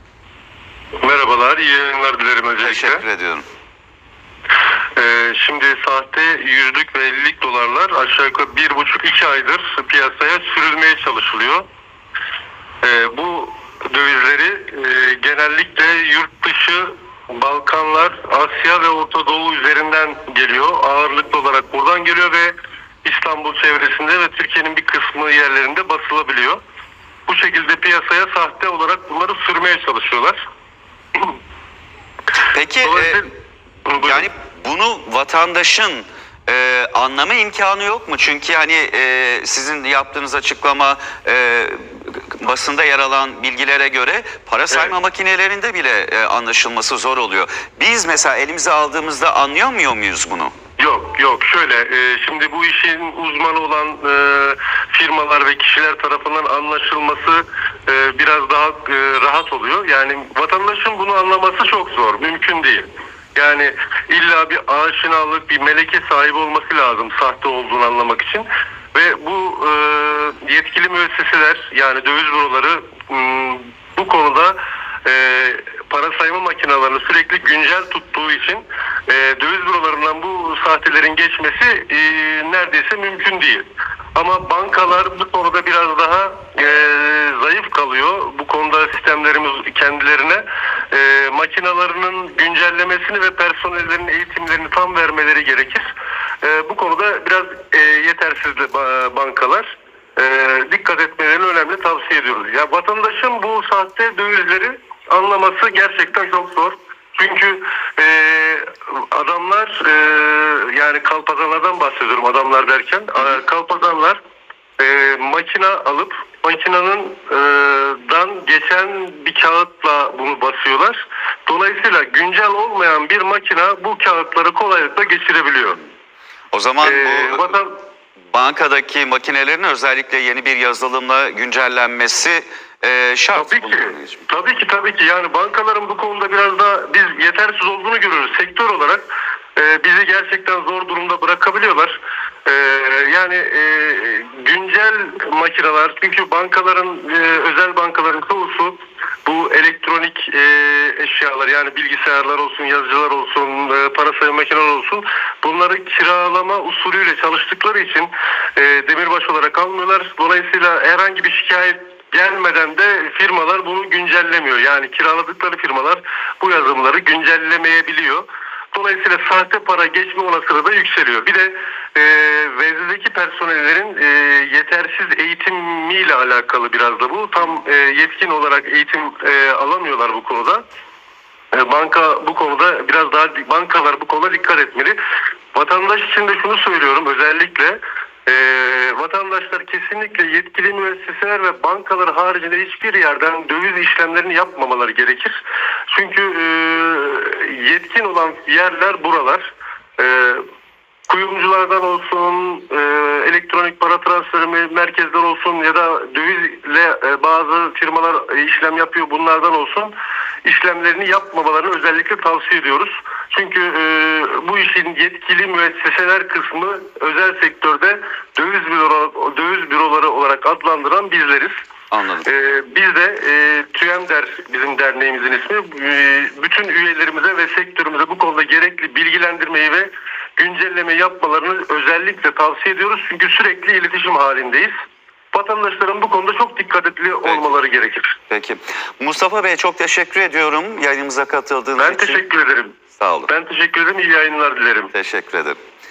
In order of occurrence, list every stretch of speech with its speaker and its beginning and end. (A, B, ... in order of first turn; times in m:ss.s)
0:01.0-0:03.0 A
0:02.6-0:03.4 B
0:05.0-0:11.6 A
0:12.8-0:26.6 A
0:27.3-0:30.4 A
0:32.5-0:33.2 B
0:32.8-0:33.3 A
0:33.8-0:34.3 A
0:34.0-0:50.5 B
0:50.8-1:35.9 A
1:36.4-1:54.2 A
1:54.8-2:05.8 A
2:06.5-2:07.6 B
2:06.8-2:07.8 A
2:08.3-2:14.2 B
2:13.4-3:00.6 A
3:01.5-3:05.0 A
3:05.5-3:15.3 A
3:15.9-3:20.4 A
3:21.1-3:29.9 A
3:30.4-3:41.5 A
3:41.9-3:42.3 B
3:42.2-3:54.7 A
3:55.3-3:58.2 A
3:58.3-4:02.2 B
4:01.8-4:02.7 A
4:03.0-4:03.3 B
4:03.3-4:04.9 A
4:04.9-4:05.6 B